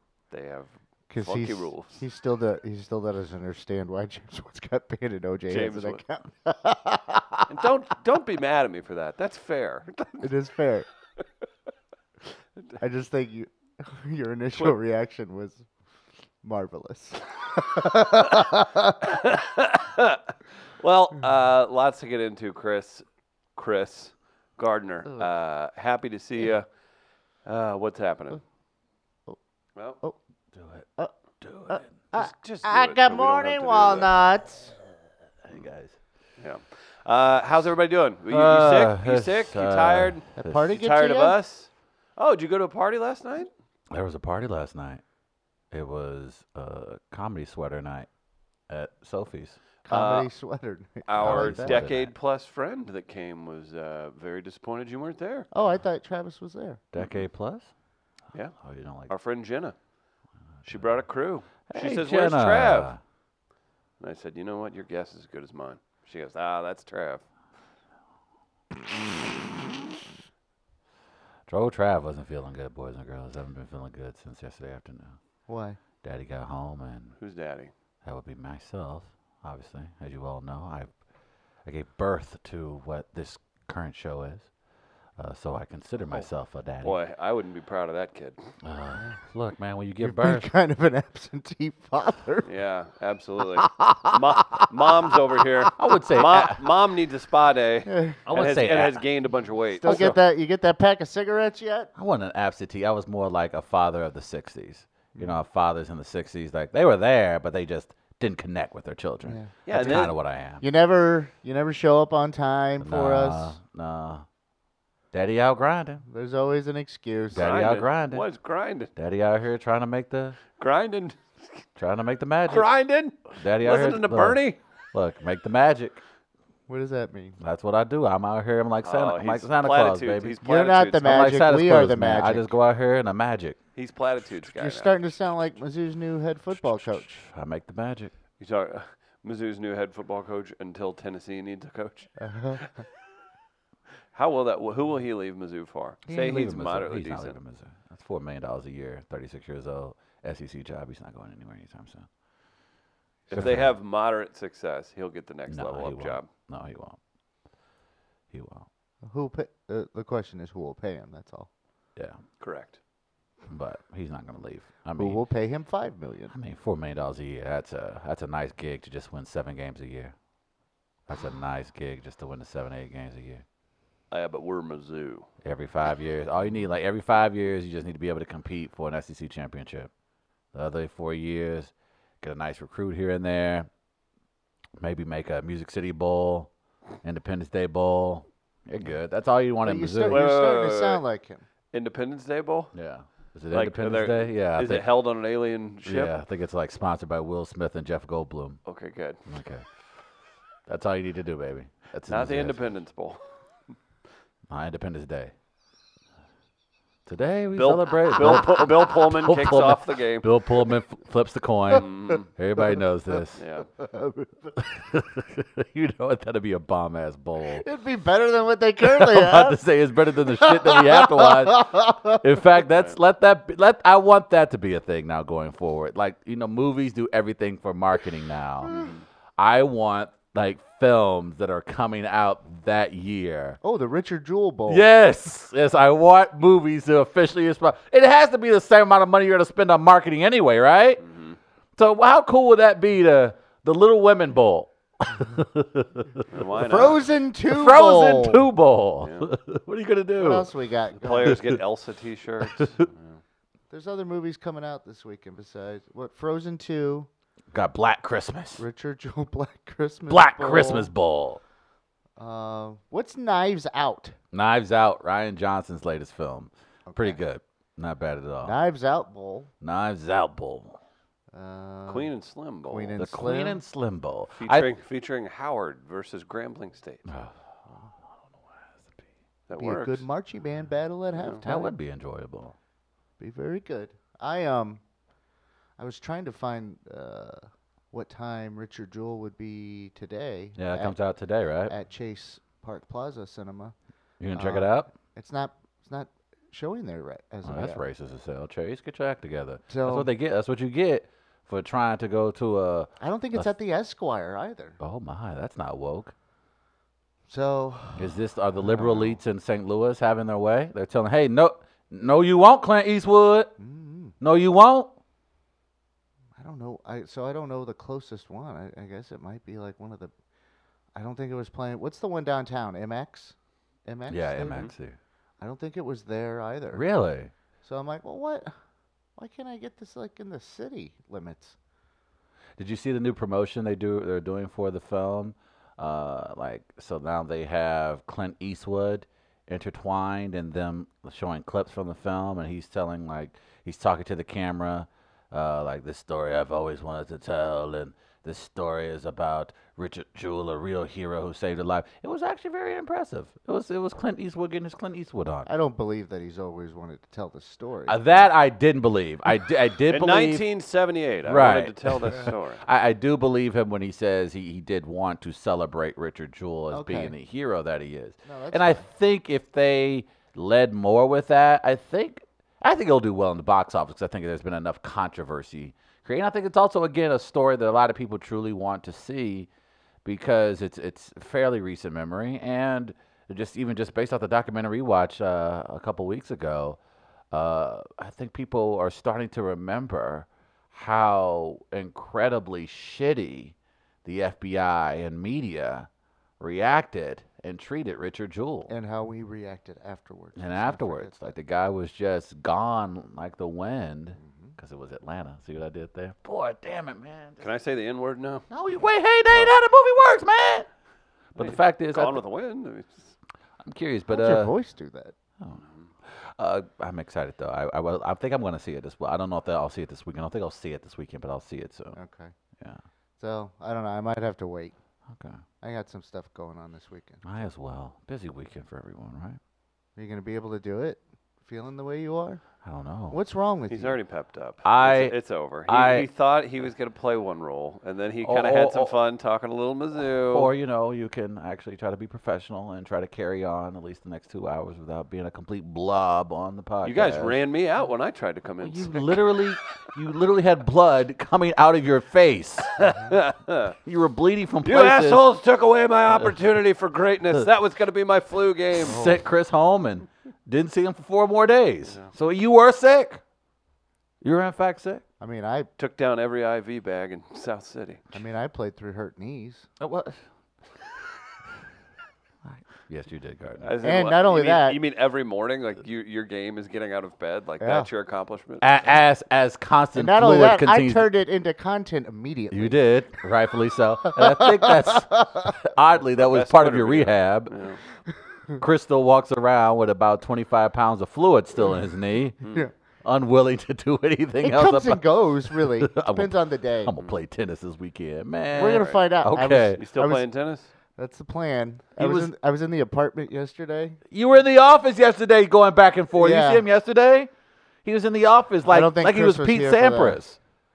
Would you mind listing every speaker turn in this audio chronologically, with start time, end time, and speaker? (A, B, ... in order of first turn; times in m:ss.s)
0:00.3-0:02.0 A
0:01.1-0:07.5 B
0:05.5-0:06.0 A
0:07.5-0:10.3 A
0:10.2-0:10.9 B
0:12.8-0:15.6 B
0:16.4-0:19.1 B
0:19.0-0:23.0 A
0:23.6-0:26.7 A
0:27.4-0:28.4 A
0:30.5-0:30.9 C
0:31.4-0:31.9 C
0:31.7-0:34.7 B
0:32.1-0:34.2 A
0:35.4-0:36.0 C
0:36.4-0:43.5 A
0:38.3-0:40.6 C
0:40.4-0:41.4 B
0:43.9-0:45.0 C
0:45.7-0:48.1 C
0:48.7-0:49.6 C
0:49.8-0:51.9 B
0:49.9-0:50.3 A
0:51.1-0:55.5 A
0:51.2-0:52.1 C
0:55.5-0:56.8 B
0:56.9-0:57.7 C
0:58.6-0:59.1 C
0:59.1-0:59.7 A
1:00.6-1:02.9 A
1:01.7-1:03.0 C
1:04.0-1:07.2 A
1:11.5-1:15.2 C
1:15.5-1:15.8 B
1:16.0-1:17.2 C
1:17.2-1:17.7 A
1:18.0-1:20.9 C
1:21.6-1:24.5 C
1:25.2-1:27.0 C
1:26.8-1:28.4 A
1:28.6-1:30.5 C
1:30.0-1:32.5 B
1:32.4-1:40.2 A
1:35.7-1:36.8 C
1:37.8-1:38.2 B
1:38.2-1:39.0 C
1:39.8-1:41.9 B
1:39.9-1:40.1 C
1:42.0-1:50.6 C
1:49.2-1:53.6 B
1:49.6-1:50.1 A
1:52.8-1:54.2 C
1:55.1-1:56.0 C
1:56.1-1:57.6 B
1:57.3-1:58.3 C
1:57.3-1:58.9 A
1:59.0-2:00.4 C
2:00.5-2:01.6 A
2:01.8-2:02.7 C
2:02.5-2:04.6 A
2:03.4-2:06.0 C
2:06.7-2:07.4 B
2:07.4-2:10.4 C
2:08.8-2:11.2 A
2:10.4-2:12.5 B
2:11.0-2:13.6 C
2:13.8-2:14.9 A
2:14.5-2:17.2 B
2:16.5-2:18.1 C
2:18.4-2:22.7 A
2:22.2-2:22.7 B
2:24.1-2:27.4 A
2:26.1-2:32.1 C
2:33.3-2:36.3 A
2:33.3-2:33.8 C
2:35.5-2:37.0 C
2:38.3-2:38.7 C
2:39.0-2:41.5 B
2:42.4-2:42.8 A
2:43.5-2:45.2 C
2:44.8-2:46.3 B
2:46.3-2:50.1 C
2:51.1-2:53.4 C
2:54.1-2:55.3 A
2:55.4-2:59.9 C
3:00.5-3:03.7 C
3:04.8-3:06.5 C
3:07.0-3:10.3 C
3:09.6-3:11.4 B
3:10.1-3:11.0 A
3:11.7-3:12.7 A
3:12.7-3:14.8 C
3:13.5-3:16.1 A
3:15.8-3:18.6 C
3:18.6-3:19.2 A
3:19.3-3:19.6 C
3:20.7-3:22.6 C
3:22.1-3:23.2 A
3:24.5-3:25.3 C
3:27.0-3:33.4 C
3:27.5-3:30.3 A
3:31.7-3:32.3 A
3:33.4-3:33.7 A
3:33.8-3:34.6 B
3:34.5-3:37.6 C
3:37.5-3:39.6 B
3:38.8-3:53.6 C
3:40.2-3:42.2 B
3:48.7-3:49.0 A
3:53.6-3:54.8 B
3:54.7-4:01.0 C
4:01.0-4:01.4 A
4:01.8-4:06.3 C
4:06.3-4:07.1 A
4:06.6-4:08.4 B
4:07.5-4:10.5 C
4:09.0-4:09.3 A
4:10.2-4:11.4 B
4:11.0-4:13.2 A
4:11.2-4:11.6 C
4:12.5-4:12.8 C
4:13.7-4:17.1 B
4:17.5-4:18.6 C
4:18.6-4:20.9 B
4:20.1-4:21.4 C
4:22.2-4:24.2 B
4:24.3-4:28.6 C
4:26.9-4:27.2 B
4:28.4-4:29.5 B
4:29.6-4:30.8 C
4:31.3-4:32.1 B
4:31.9-4:33.0 A
4:32.6-4:33.6 B
4:33.0-4:34.7 C
4:34.4-4:37.0 A
4:37.0-4:37.4 C
4:39.5-4:40.0 A
4:39.6-4:41.8 B
4:41.1-4:41.4 A
4:41.4-4:42.6 C
4:43.2-4:44.8 B
4:45.8-4:51.0 B
4:50.6-4:51.7 C
4:51.7-4:53.7 B
4:54.2-4:54.9 C
4:54.3-4:57.8 B
4:57.4-5:03.5 C
4:59.7-5:00.1 B
5:03.0-5:04.8 B
5:04.8-5:06.1 C
5:07.3-5:09.2 B
5:08.0-5:13.5 C
5:13.6-5:14.2 B
5:14.2-5:14.9 C
5:16.4-5:20.1 B
5:20.9-5:23.3 B
5:23.8-5:24.7 B
5:24.1-5:25.0 C
5:25.4-5:26.8 B
5:26.7-5:27.3 C
5:27.6-5:28.5 B
5:29.2-5:31.6 B
5:32.6-5:55.5 C
5:55.4-5:58.3 B
5:57.9-6:00.4 C
5:59.9-6:02.6 A
6:01.2-6:19.5 C
6:06.7-6:07.1 B
6:08.2-6:08.8 B
6:20.0-6:26.8 C
6:27.3-6:33.5 C
6:34.0-6:35.9 C
6:36.4-6:38.7 C
6:38.7-6:41.4 B
6:40.4-6:47.5 C
6:44.2-6:44.6 B
6:47.4-6:48.5 A
6:48.5-6:50.7 C
6:51.3-6:52.2 C
6:51.4-6:53.1 A
6:53.6-6:54.5 C
6:54.1-6:55.1 B
6:55.4-7:02.0 C
6:55.6-6:55.9 A
7:01.9-7:02.3 B
7:03.2-7:04.7 B
7:05.1-7:05.4 C
7:05.6-7:07.2 B
7:07.2-7:09.4 C
7:10.0-7:12.4 B
7:12.6-7:13.2 C
7:13.1-7:14.0 B
7:13.7-7:20.5 A
7:14.6-7:16.1 C
7:18.2-7:19.0 C
7:20.3-7:27.4 C
7:26.8-7:29.4 A
7:28.6-7:32.8 C
7:32.8-7:33.8 A
7:33.8-7:35.2 C
7:34.6-7:39.1 A
7:36.1-7:36.4 C
7:38.7-7:43.2 C
7:38.9-7:39.2 B
7:44.2-7:45.0 C
7:45.2-7:45.7 B
7:45.8-7:48.0 A
7:48.1-7:49.7 B
7:49.8-7:50.2 C
7:52.4-7:53.7 C
7:53.6-7:58.7 A
7:53.8-7:54.8 B
7:57.6-7:57.9 B
7:58.6-8:01.1 C
7:59.9-8:02.8 B
8:02.5-8:07.5 C
8:04.0-8:05.6 B
8:06.1-8:07.8 A
8:08.6-8:12.4 C
8:12.4-8:12.7 B
8:13.0-8:19.8 C
8:14.4-8:17.0 B
8:18.5-8:20.3 B
8:18.6-8:19.0 A
8:19.8-8:20.7 A
8:21.0-8:24.0 B
8:22.0-8:22.3 C
8:24.1-8:27.3 C
8:26.2-8:26.6 B
8:27.8-8:30.4 C
8:28.7-8:30.2 B